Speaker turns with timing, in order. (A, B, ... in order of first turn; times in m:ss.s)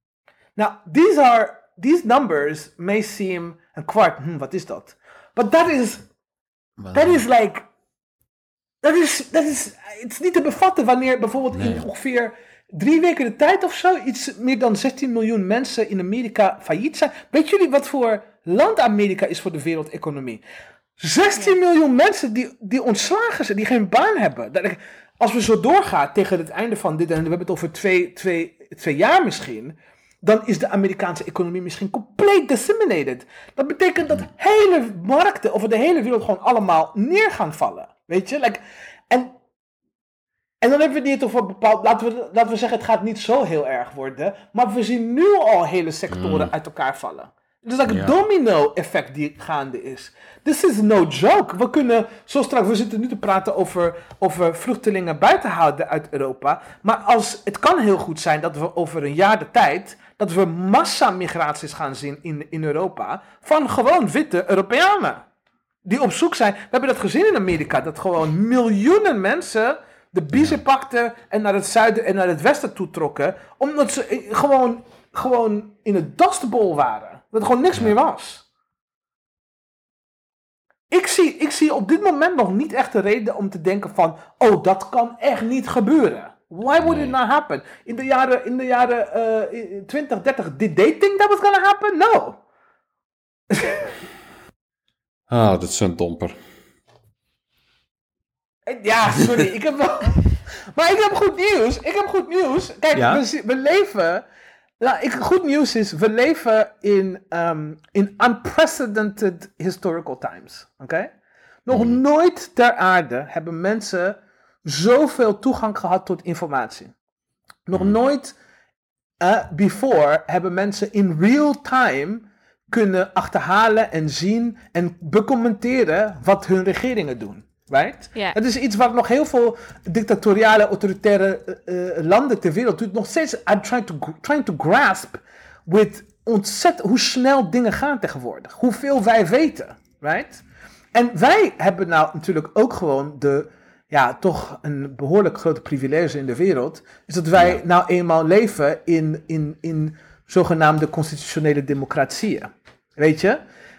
0:00.6-0:06.0 A
0:06.8-0:07.2 B
0:06.9-0:07.7 A
0:08.8-0:20.4 A
0:11.5-0:11.8 B
0:21.0-0:39.3 A
0:40.6-1:05.2 A
0:46.1-0:46.5 B
0:47.9-0:48.1 B
1:05.8-1:18.4 A
1:20.9-1:32.4 A
1:26.8-1:27.1 B
1:33.5-1:34.0 A
1:35.3-1:36.4 B
1:38.7-1:44.2 A
1:42.9-1:43.2 B
1:44.8-1:51.1 A
1:51.7-1:56.9 A
1:51.7-1:52.0 B
1:57.7-1:58.4 A
1:59.2-2:33.4 A
2:27.4-2:27.6 B